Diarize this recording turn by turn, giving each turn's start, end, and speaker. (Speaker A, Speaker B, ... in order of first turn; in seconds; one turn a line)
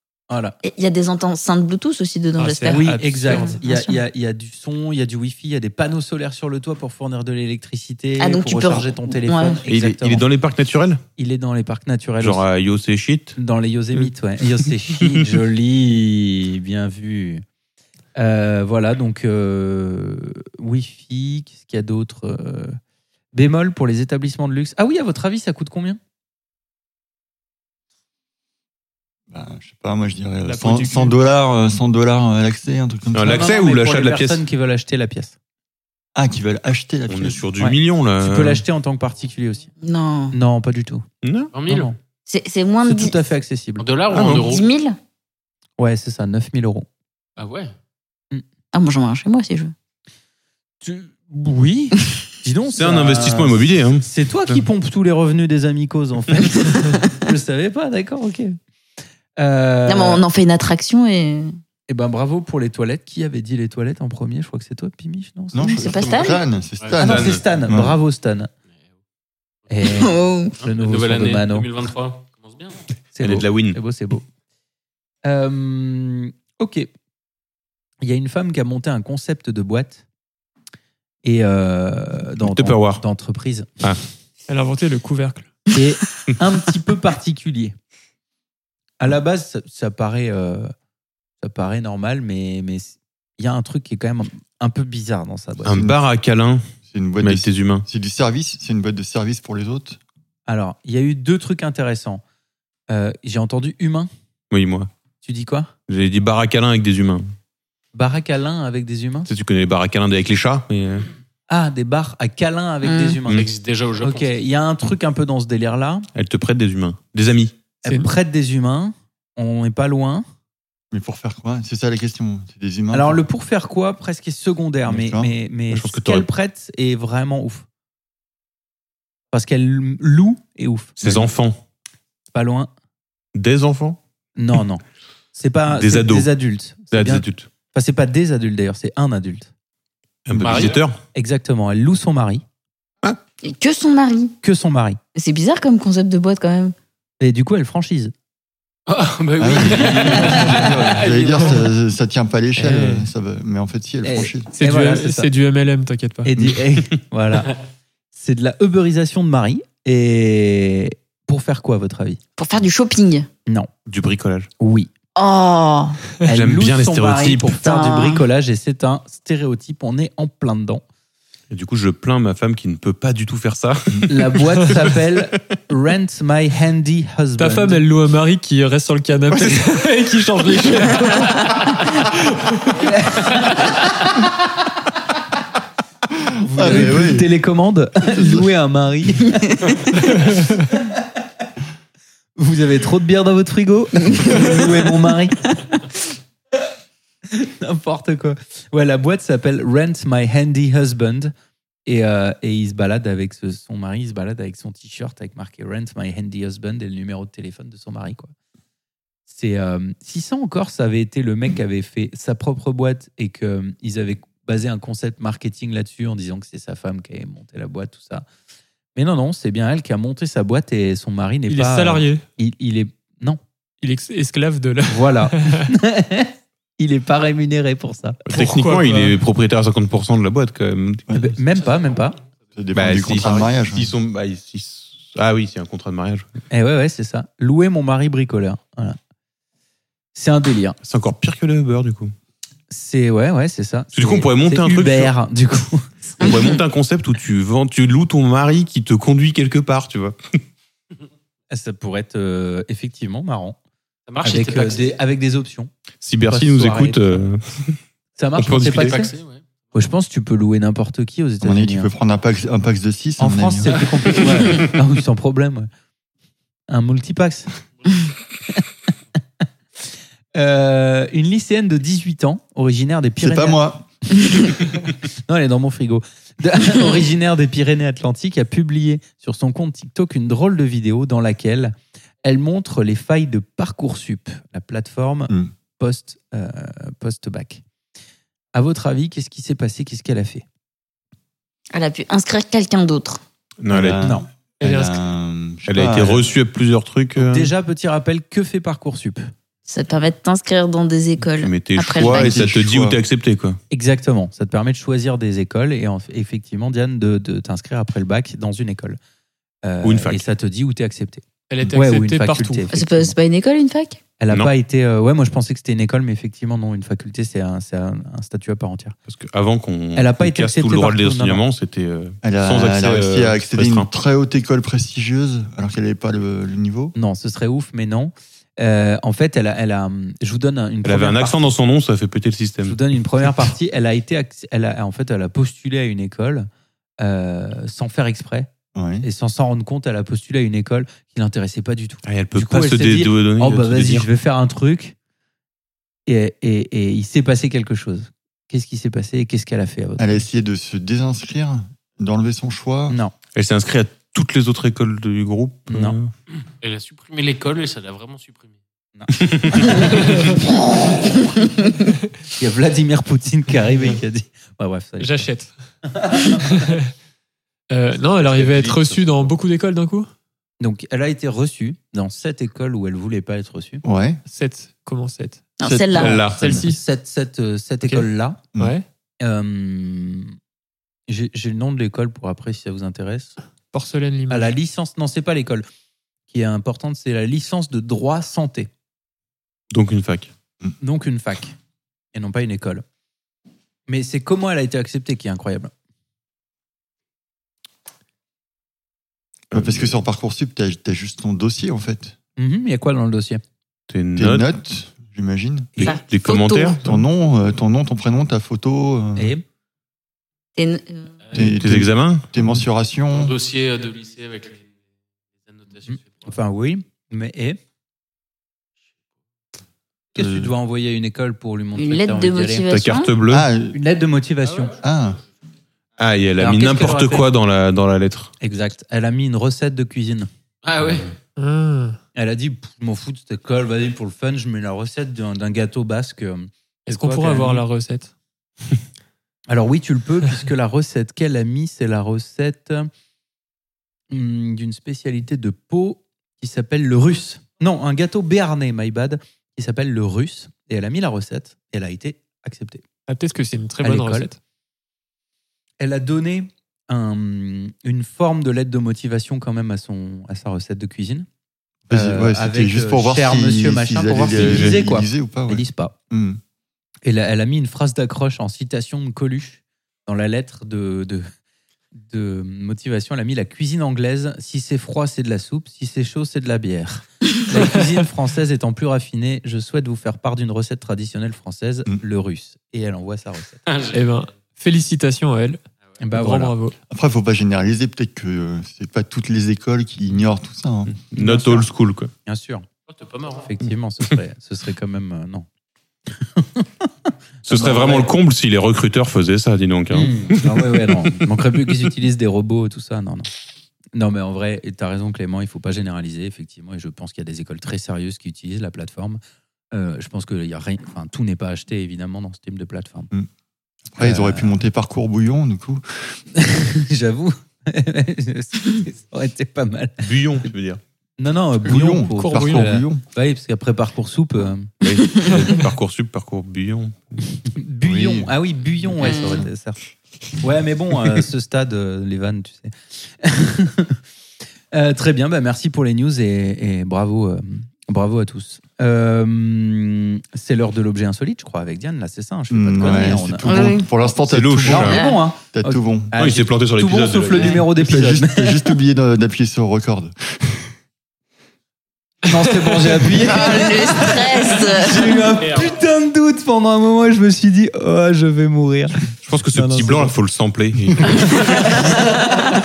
Speaker A: 0.3-0.6
Speaker B: 0.6-4.0
Speaker C: 2.4-3.6
Speaker A: 2.7-10.3
Speaker B: 8.2-9.6
Speaker D: 9.7-11.0
Speaker A: 11.2-12.4
Speaker D: 12.2-13.4
Speaker A: 13.4-17.4
Speaker A: 18.1-22.8
Speaker A: 23.3-26.0
Speaker E: 29.3-33.5
Speaker C: 30.4-31.2
Speaker D: 33.1-34.4
Speaker A: 33.2-35.3
Speaker E: 36.1-37.4
Speaker D: 37.1-38.6
Speaker A: 37.6-39.7
Speaker B: 39.8-40.4
Speaker A: 40.3-41.0
Speaker D: 41.2-41.5
Speaker F: 41.5-41.9
Speaker A: 41.7-42.0
Speaker B: 42.3-43.1
Speaker A: 42.8-43.9
Speaker F: 43.8-44.7
Speaker D: 44.1-44.5
Speaker B: 44.3-45.0
Speaker A: 45.8-46.9
Speaker F: 47.4-47.7
Speaker B: 48.7-49.7
Speaker A: 50.8-58.6
Speaker D: 52.7-54.6
Speaker A: 59.4-60.2
Speaker B: 59.9-61.5
Speaker A: 61.9-65.8
Speaker E: 65.5-68.0
Speaker B: 65.7-66.4
Speaker A: 67.0-68.5
Speaker D: 67.0-67.4
Speaker A: 69.7-71.7
Speaker B: 69.9-70.5
Speaker F: 70.6-72.8
Speaker A: 73.1-74.2
Speaker D: 73.2-73.8
Speaker A: 75.2-76.9
Speaker A: 78.0-80.0
Speaker A: 81.2-83.7
Speaker D: 82.4-83.0
Speaker C: 84.5-85.5
Speaker A: 85.7-87.7
Speaker A: 89.0-90.7
Speaker A: 91.4-95.8
Speaker D: 95.7-96.6
Speaker E: 95.7-96.0
Speaker E: 96.8-100.0
Speaker D: 97.2-97.8
Speaker A: 100.5-102.2
Speaker A: 102.9-104.1
Speaker D: 104.5-104.9
Speaker A: 105.2-105.7
Speaker D: 105.9-107.3
Speaker A: 107.9-109.3
Speaker D: 109.3-111.1
Speaker A: 111.5-113.5
Speaker B: 112.8-113.2
Speaker F: 113.3-114.4
Speaker A: 114.0-116.1
Speaker D: 116.1-117.5
Speaker A: 117.8-120.2
Speaker C: 117.8-118.1
Speaker E: 120.9-123.2
Speaker A: 122.9-127.6
Speaker E: 124.8-125.3
Speaker D: 125.7-126.3
Speaker A: 129.3-131.2
Speaker D: 131.0-131.6
Speaker A: 132.3-132.7
Speaker D: 133.3-134.0
Speaker A: 134.4-134.8
Speaker A: 135.3-139.5
Speaker D: 135.7-136.3
Speaker D: 136.9-137.5
Speaker D: 140.2-141.0
Speaker F: 140.4-140.8
Speaker A: 141.1-142.4
Speaker B: 143.4-144.3
Speaker A: 144.4-145.0
Speaker B: 145.1-146.7
Speaker A: 147.2-148.1
Speaker F: 148.9-151.6
Speaker E: 149.4-154.5
Speaker A: 152.6-153.0
Speaker A: 154.0-155.3
Speaker C: 154.5-156.3
Speaker A: 156.2-157.5
Speaker A: 158.1-162.2
Speaker B: 162.4-163.3
Speaker D: 163.9-164.5
Speaker A: 164.6-164.9
Speaker B: 165.1-166.0
Speaker A: 166.2-170.8
Speaker D: 166.3-167.6
Speaker B: 167.6-168.2
Speaker D: 171.5-174.9
Speaker A: 174.1-177.8
Speaker C: 177.4-181.8
Speaker A: 182.8-184.1
Speaker A: 186.4-189.8
Speaker E: 186.5-187.3
Speaker E: 188.0-188.5
Speaker A: 190.7-191.0
Speaker A: 192.4-195.8
Speaker A: 197.3-201.3
Speaker A: 201.8-208.3
Speaker A: 209.3-218.2
Speaker A: 218.9-223.4
Speaker C: 221.5-222.2
Speaker C: 223.8-225.7
Speaker A: 224.9-228.2
Speaker D: 228.3-231.1
Speaker C: 228.3-229.2
Speaker A: 231.1-232.2
Speaker E: 232.6-233.9
Speaker D: 232.7-236.3
Speaker A: 236.5-239.0
Speaker A: 240.1-240.8
Speaker D: 240.8-242.1
Speaker A: 242.7-246.2
Speaker D: 243.9-245.1
Speaker D: 246.2-250.2
Speaker B: 246.2-246.6
Speaker A: 251.5-253.6
Speaker F: 254.1-254.9
Speaker A: 254.2-255.7
Speaker D: 256.0-257.8
Speaker A: 256.3-257.2
Speaker A: 258.2-259.1
Speaker D: 258.4-259.0
Speaker F: 258.7-259.4
Speaker A: 259.7-261.9
Speaker E: 261.4-263.7
Speaker A: 263.2-265.7
Speaker A: 266.7-267.5
Speaker A: 270.3-273.6
Speaker E: 273.2-273.9
Speaker A: 275.3-287.6
Speaker A: 288.5-290.4
Speaker B: 291.7-293.2
Speaker D: 293.6-294.2
Speaker E: 293.7-296.3
Speaker C: 294.6-295.0
Speaker D: 295.6-297.5
Speaker A: 297.1-299.3
Speaker B: 299.7-302.4
Speaker D: 301.3-303.6
Speaker E: 301.9-303.0
Speaker A: 303.7-309.0
Speaker A: 309.6-313.2
Speaker D: 309.8-310.3
Speaker C: 311.5-312.7
Speaker B: 312.7-314.0
Speaker A: 314.2-318.9
Speaker D: 319.1-323.9
Speaker A: 319.9-321.4
Speaker E: 322.2-326.9
Speaker A: 326.9-331.5
Speaker D: 330.8-332.8
Speaker A: 332.6-336.5
Speaker A: 337.0-338.5
Speaker E: 338.7-339.1
Speaker A: 339.0-344.9
Speaker D: 342.0-344.1
Speaker A: 346.1-350.2
Speaker E: 350.0-353.0
Speaker D: 353.4-356.1
Speaker A: 355.7-356.0
Speaker F: 356.6-358.6
Speaker A: 358.9-360.2
Speaker D: 359.1-359.9
Speaker C: 360.0-360.3
Speaker A: 362.4-365.2
Speaker C: 365.0-365.5
Speaker A: 365.9-366.6
Speaker C: 366.4-366.9
Speaker C: 367.7-370.1
Speaker D: 368.2-369.2
Speaker A: 370.6-373.8
Speaker E: 373.8-374.2
Speaker C: 374.2-375.5
Speaker B: 375.6-376.2
Speaker E: 375.7-376.4
Speaker D: 375.9-376.6
Speaker C: 376.2-376.8
Speaker A: 376.5-378.4
Speaker C: 377.8-378.9
Speaker A: 379.2-380.3
Speaker A: 381.1-383.4
Speaker C: 383.7-384.5
Speaker A: 384.3-385.6
Speaker A: 386.3-388.7
Speaker D: 389.7-390.3
Speaker A: 390.8-391.5
Speaker A: 392.1-392.8
Speaker A: 393.9-395.7
Speaker D: 399.5-399.9
Speaker E: 399.5-402.1
Speaker A: 402.4-403.4
Speaker D: 403.9-404.5
Speaker E: 404.1-405.8
Speaker D: 405.8-406.9
Speaker B: 405.8-406.8
Speaker E: 406.8-409.3
Speaker A: 409.1-409.4
Speaker B: 410.6-411.2
Speaker E: 411.3-413.3
Speaker D: 411.3-412.3
Speaker F: 413.1-414.6
Speaker F: 415.5-416.2
Speaker A: 415.9-417.6
Speaker A: 420.1-422.6
Speaker B: 421.8-423.1
Speaker D: 422.7-423.5
Speaker E: 423.3-423.8
Speaker A: 423.7-424.7
Speaker E: 424.8-425.2
Speaker D: 426.0-428.3
Speaker A: 426.4-427.2
Speaker A: 428.4-430.3
Speaker F: 430.6-431.1
Speaker C: 431.4-432.0
Speaker A: 432.1-437.6
Speaker C: 436.9-438.1
Speaker A: 439.5-442.9
Speaker A: 444.1-452.8
Speaker C: 453.1-454.4
Speaker A: 453.8-454.3
Speaker A: 455.8-461.3
Speaker E: 461.9-466.4
Speaker A: 461.9-465.9
Speaker D: 464.3-464.8
Speaker A: 467.0-471.3
Speaker A: 471.9-483.7
Speaker F: 483.7-484.0
Speaker C: 483.9-485.6
Speaker A: 486.0-486.5
Speaker C: 486.1-486.8
Speaker E: 486.9-491.0
Speaker D: 491.0-492.1
Speaker A: 491.1-491.7
Speaker A: 492.2-492.6
Speaker F: 492.9-493.5
Speaker A: 493.4-495.4
Speaker A: 496.3-496.9
Speaker A: 497.4-498.1
Speaker D: 497.4-501.2
Speaker A: 499.9-503.3
Speaker A: 503.9-509.2
Speaker A: 509.7-513.1
Speaker E: 513.9-516.2
Speaker A: 514.0-514.6
Speaker A: 516.3-520.5
Speaker D: 520.0-520.8
Speaker A: 521.2-524.7
Speaker E: 521.6-523.0
Speaker C: 522.2-522.7
Speaker D: 524.8-527.2
Speaker A: 527.5-529.8
Speaker E: 527.8-528.3
Speaker E: 529.0-529.3
Speaker B: 529.0-529.4
Speaker A: 530.4-534.0
Speaker A: 534.7-543.8
Speaker E: 542.5-546.1
Speaker B: 543.5-543.9
Speaker D: 544.2-545.0
Speaker A: 544.6-548.7
Speaker B: 544.9-545.2
Speaker D: 546.1-547.7
Speaker E: 547.8-550.7
Speaker A: 552.2-560.1
Speaker B: 553.2-555.2
Speaker F: 555.4-555.7
Speaker D: 559.2-561.8
Speaker A: 561.6-562.1